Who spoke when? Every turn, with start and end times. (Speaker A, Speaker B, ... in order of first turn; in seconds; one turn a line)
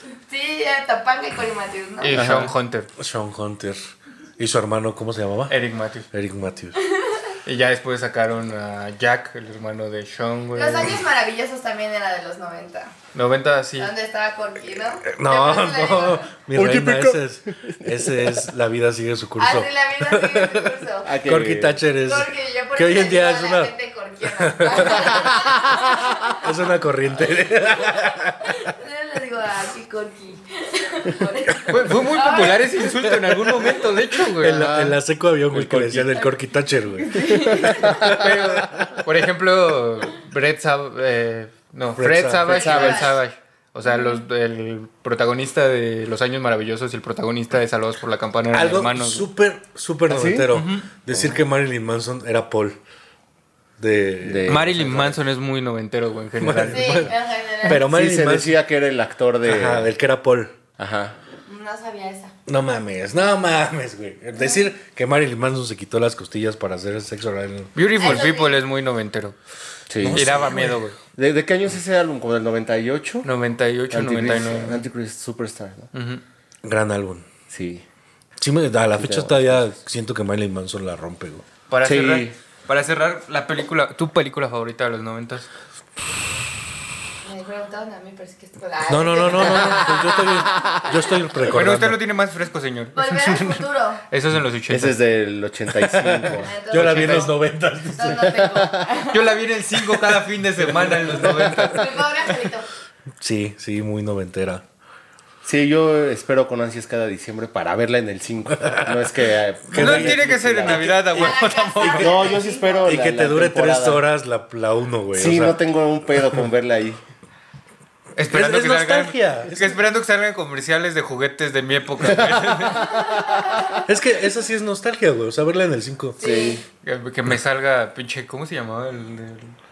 Speaker A: 0.3-2.2
Speaker B: 2.0-2.9
Speaker C: 2.1-2.5
Speaker D: 3.0-5.6
Speaker B: 5.5-6.1
Speaker D: 6.1-6.8
Speaker A: 6.8-7.3
Speaker B: 7.5-11.0
Speaker A: 10.6-12.9
Speaker B: 13.1-13.9
Speaker A: 13.8-16.3
Speaker D: 15.1-23.7
Speaker C: 16.5-18.4
Speaker A: 19.4-21.2
Speaker C: 21.0-21.9
Speaker A: 22.0-26.5
Speaker D: 24.3-28.7
Speaker A: 27.4-32.7
Speaker B: 31.7-34.7
Speaker D: 34.4-39.0
Speaker C: 34.5-35.0
Speaker C: 35.5-36.1
Speaker A: 37.0-38.1
Speaker C: 37.5-38.2
Speaker B: 38.0-49.3
Speaker D: 42.0-43.1
Speaker C: 42.5-43.0
Speaker A: 42.6-43.2
Speaker A: 43.9-44.2
Speaker D: 48.5-52.8
Speaker C: 50.1-50.5
Speaker B: 50.5-50.9
Speaker C: 51.1-51.4
Speaker D: 53.8-54.7
Speaker C: 54.2-55.2
Speaker B: 54.5-57.2
Speaker D: 56.4-58.6
Speaker A: 56.7-57.9
Speaker C: 57.7-59.9
Speaker D: 59.5-60.6
Speaker C: 60.8-61.2
Speaker A: 61.5-62.3
Speaker D: 62.5-68.1
Speaker B: 67.8-69.4
Speaker A: 67.9-68.6
Speaker C: 69.9-70.2
Speaker D: 70.0-70.9
Speaker B: 70.1-71.0
Speaker C: 71.2-73.3
Speaker B: 73.2-74.8
Speaker C: 73.9-75.9
Speaker B: 75.9-76.2
Speaker D: 76.7-77.3
Speaker C: 77.5-77.8
Speaker D: 78.4-81.5
Speaker C: 78.9-79.7
Speaker B: 81.7-85.5
Speaker C: 81.8-82.3
Speaker A: 87.2-90.5
Speaker D: 88.9-92.0
Speaker C: 89.3-90.8
Speaker B: 91.5-95.0
Speaker A: 93.0-94.0
Speaker C: 94.7-96.5
Speaker D: 95.8-98.7
Speaker A: 96.4-99.4
Speaker B: 96.7-97.3
Speaker B: 99.1-101.9
Speaker D: 100.8-101.6
Speaker A: 101.6-102.7
Speaker D: 103.2-104.6
Speaker C: 105.4-114.0
Speaker D: 109.7-110.3
Speaker B: 109.7-112.3
Speaker A: 111.0-113.0
Speaker D: 112.8-115.6
Speaker C: 115.1-117.0
Speaker B: 118.2-122.9
Speaker D: 118.2-119.8
Speaker C: 122.0-123.7
Speaker A: 122.8-123.8
Speaker D: 123.8-126.2
Speaker A: 126.2-126.6
Speaker C: 126.2-126.6
Speaker B: 126.8-129.6